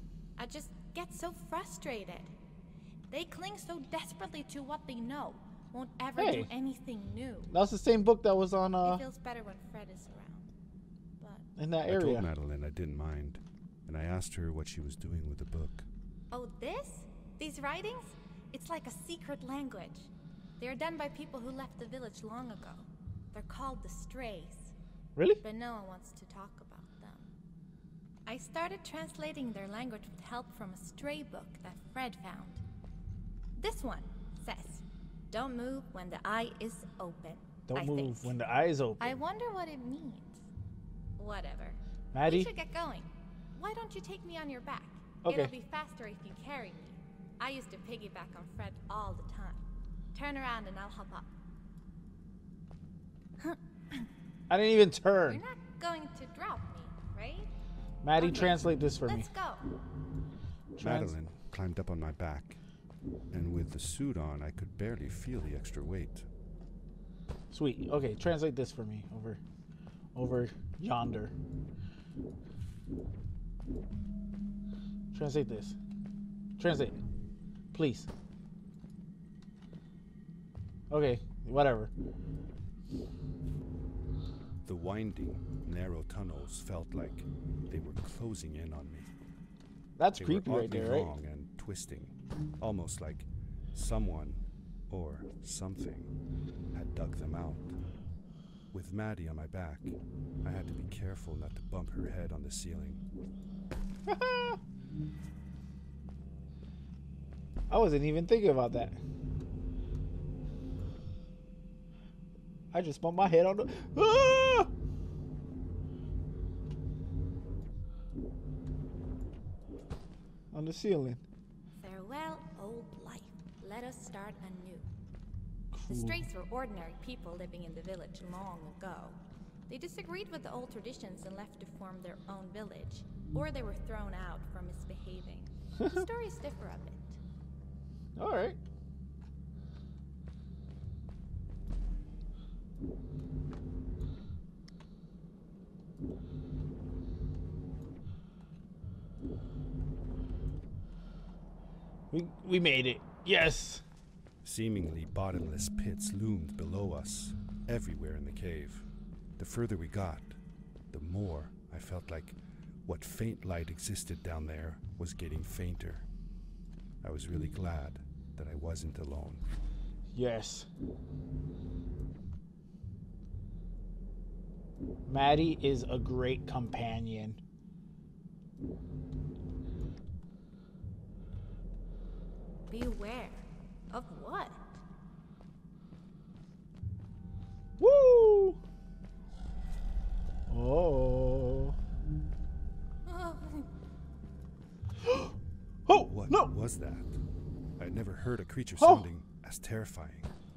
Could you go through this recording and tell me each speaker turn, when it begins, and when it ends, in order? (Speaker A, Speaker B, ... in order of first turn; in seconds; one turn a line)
Speaker A: 0.4-2.3
Speaker A: 3.1-7.5
Speaker B: 6.2-6.5
Speaker B: 7.5-9.0
Speaker A: 8.8-10.4
Speaker A: 11.2-11.4
Speaker B: 11.6-12.3
Speaker C: 11.9-15.9
Speaker A: 16.3-24.7
Speaker B: 25.1-25.4
Speaker A: 25.4-27.3
Speaker A: 28.2-32.6
Speaker A: 33.6-38.4
Speaker B: 37.7-39.2
Speaker A: 39.0-40.4
Speaker A: 41.2-49.6
Speaker B: 42.1-42.5
Speaker B: 45.2-45.5
Speaker A: 50.1-51.3
Speaker A: 53.4-54.1
Speaker B: 54.5-55.4
Speaker A: 55.3-57.5
Speaker B: 58.0-59.3
Speaker A: 58.2-59.7
Speaker B: 60.8-61.1
Speaker C: 60.8-62.6
Speaker C: 63.3-66.3
Speaker B: 67.5-69.4
Speaker B: 70.1-71.3
Speaker B: 75.1-75.8
Speaker B: 76.6-77.0
Speaker B: 77.7-78.1
Speaker B: 80.9-81.9
Speaker C: 84.6-89.1
Speaker B: 90.0-91.1
Speaker C: 90.1-96.1
Speaker C: 96.7-97.8
Speaker C: 98.7-103.0
Speaker B: 104.1-104.6
Speaker B: 107.7-109.0
Speaker B: 112.7-114.7
Speaker B: 120.5-121.2
Speaker A: 121.8-124.9
Speaker B: 125.7-126.2
Speaker A: 125.9-137.2
Speaker B: 135.8-136.0
Speaker B: 138.2-138.6
Speaker B: 152.1-153.8
Speaker C: 154.4-160.4
Speaker C: 160.9-166.1
Speaker C: 167.0-169.4
Speaker B: 170.2-170.7
Speaker B: 175.1-177.4
Speaker A: 182.7-184.8
Speaker B: 187.8-188.6
Speaker B: 190.5-191.8
Speaker A: 193.1-193.7
Speaker B: 195.0-195.3
Speaker B: 195.8-196.5
Speaker C: 196.0-197.2
Speaker C: 197.8-200.3
Speaker B: 198.8-199.1